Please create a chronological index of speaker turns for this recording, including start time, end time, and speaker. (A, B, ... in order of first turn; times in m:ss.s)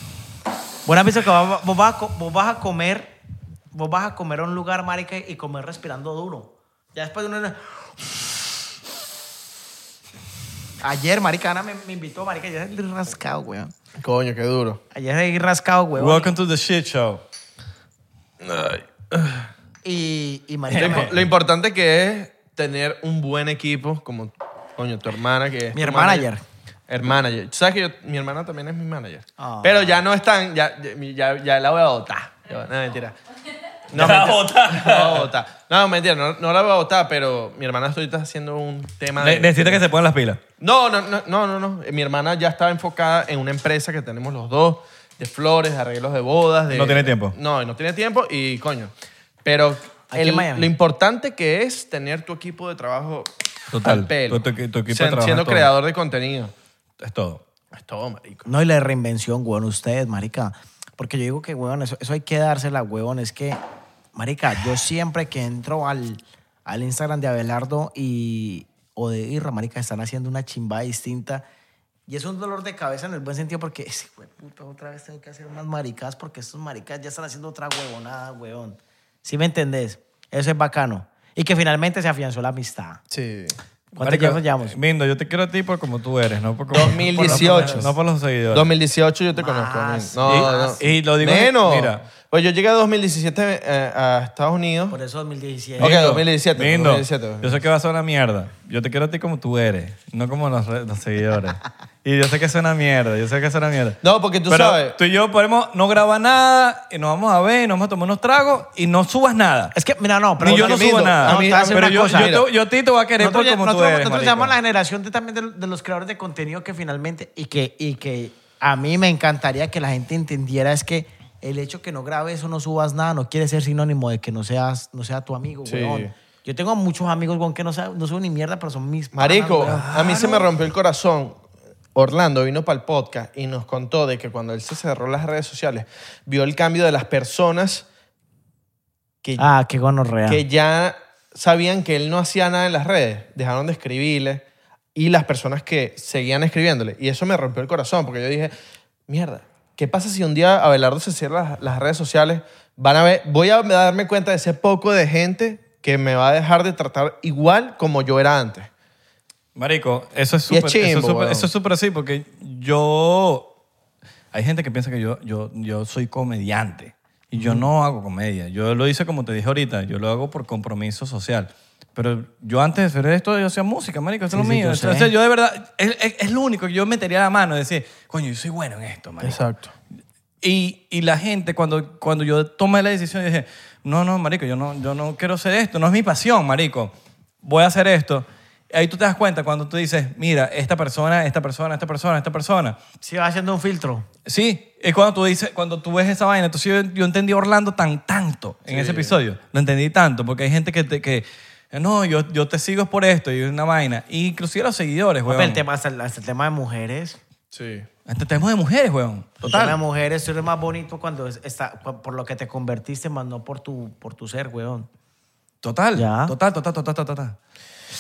0:00.8-0:03.1 A
0:03.7-0:07.8 A
0:10.8-0:13.7 A
0:14.0-0:14.8 B
0:14.9-0:16.3 A
0:16.0-0:17.2 C
0:18.4-0:19.5 B
0:19.8-0:21.1 A
0:20.7-0:21.1 C
0:20.7-0:26.3 B
0:25.7-0:26.4 A
0:26.9-0:33.2 B
0:29.4-0:29.8 A
0:33.9-0:39.8 B
0:33.9-0:35.3 C
0:39.2-0:40.4 C
0:40.6-0:48.9 B
0:46.7-0:47.3 C
0:49.4-0:53.3 B
0:50.1-0:50.7 A
0:53.7-0:55.7 C
0:53.8-0:56.5 B
0:57.0-0:57.4 C
0:57.7-0:58.4 B
0:58.4-1:03.6 A
1:04.1-1:11.4 A
1:12.1-1:23.0 A
1:23.1-1:23.6 B
1:23.9-1:24.8 A
1:24.0-1:28.7 C
1:26.7-1:28.0 B
1:27.1-1:27.8 A
1:28.5-1:35.0 B
1:29.4-1:30.8 A
1:30.2-1:32.0 C
1:34.9-1:36.0 A
1:35.8-1:37.6 B
1:35.8-1:49.7 C
1:44.0-1:45.0 B
1:49.7-1:52.3 A
1:50.4-1:54.5 C
1:50.4-1:52.5 B
1:53.2-2:09.9 A
2:05.6-2:06.1 B
2:09.1-2:11.4 B
2:09.6-2:10.5 C
2:11.9-2:17.9 B
2:19.4-2:20.4 A
2:20.3-2:24.4 B
2:24.9-2:28.5 B
2:29.1-2:38.7 B
2:39.6-2:43.5 C
2:40.5-2:41.5 B
2:44.3-2:59.4 C
2:47.3-2:47.6 A
2:54.3-2:55.1 A
2:59.2-2:59.7 B
3:00.4-3:06.9 C
3:07.4-3:12.8 C
3:13.0-3:14.0 A
3:14.2-3:25.6 C
3:18.7-3:19.2 B
3:25.2-3:27.2 A
3:27.5-3:27.9 B
3:28.0-3:29.4 C
3:29.4-3:29.8 B
3:29.4-3:34.9 A
3:35.6-3:37.4 C
3:35.9-3:36.3 A